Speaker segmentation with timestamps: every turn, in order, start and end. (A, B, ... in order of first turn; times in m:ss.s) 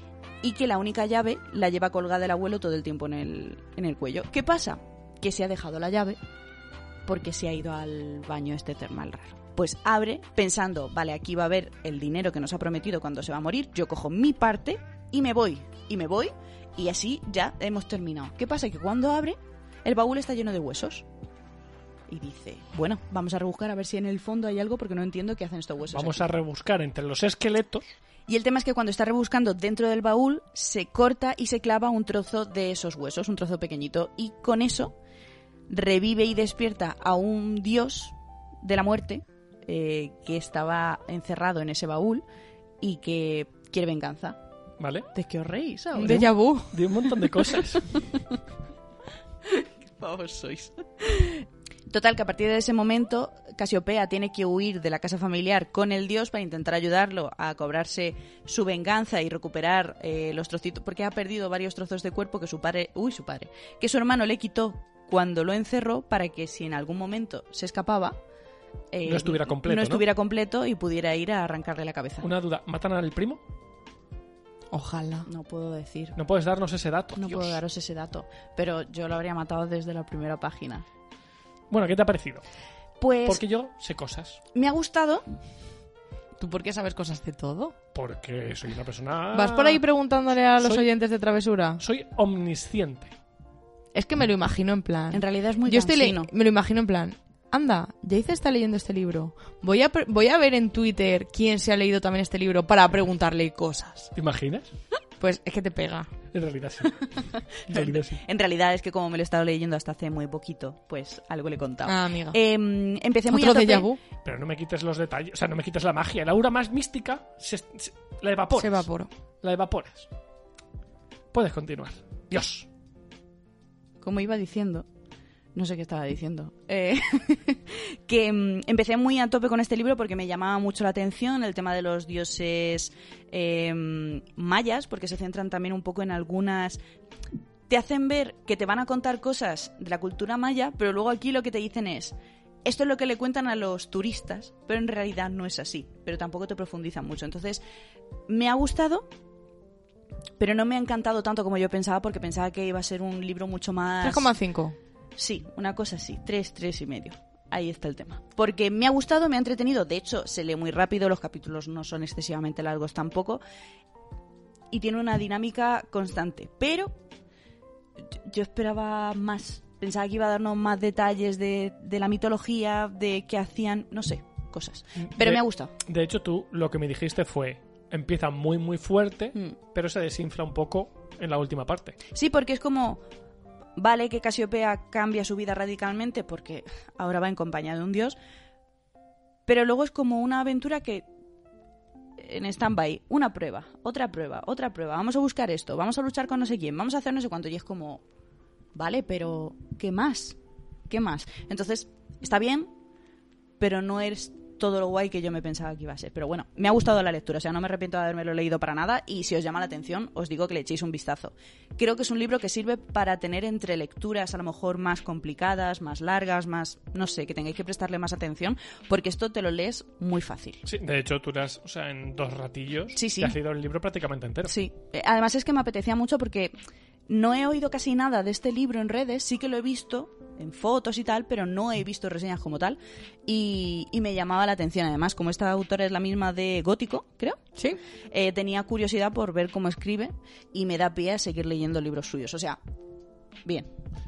0:00.4-0:06.2 A
0:07.1-0:21.1 A
0:22.1-0:26.3 A
0:25.9-0:27.8 B
0:28.3-0:35.0 A
0:35.7-0:42.2 A
0:42.8-0:44.4 A
0:44.8-0:45.1 B
0:45.1-0:46.3 A
0:46.0-0:46.8 C
0:46.0-0:48.0 B
0:47.9-0:48.2 A
0:49.4-1:08.2 A
1:08.9-1:12.3 A
1:09.0-1:10.0 B
1:12.2-1:13.4 B
1:14.7-1:15.3 C
1:15.3-1:16.2 A
1:16.2-1:17.6 B
1:17.2-1:20.9 A
1:21.7-1:22.4 B
1:23.0-1:23.4 A
1:23.2-1:24.4 B
1:24.6-1:25.2 A
1:26.4-1:27.8 C
1:27.9-1:29.8 B
1:29.3-1:31.8 C
1:30.6-1:30.9 B
1:31.8-1:33.1 B
1:33.9-1:44.1 C
1:35.1-1:36.3 A
1:44.2-1:44.7 B
1:45.2-1:46.1 C
1:46.3-1:47.1 B
1:47.1-1:53.9 A
1:47.7-1:48.2 B
1:51.8-1:52.4 C
1:53.3-1:54.0 C
1:54.2-1:58.9 B
1:58.6-1:59.1 C
1:59.4-2:00.1 B
2:01.3-2:02.7 B
2:04.0-2:04.9 A
2:05.6-2:16.8 A
2:17.7-2:27.6 A
2:28.3-2:29.1 A
2:30.4-2:34.3 A
2:34.0-2:34.8 C
2:35.2-2:43.4 A
2:44.7-2:46.9 A
2:48.2-2:55.7 A
2:55.1-3:02.0 B
3:02.1-3:03.0 A
3:03.8-3:08.2 A
3:09.5-3:11.1 A
3:12.2-3:18.0 A
3:18.8-3:20.4 A
3:20.9-3:22.7 A
3:23.6-3:40.6 A
3:40.7-3:44.5 B
3:42.9-3:43.3 A
3:44.5-3:46.5 A
3:47.1-3:57.4 A
3:58.1-4:02.6 A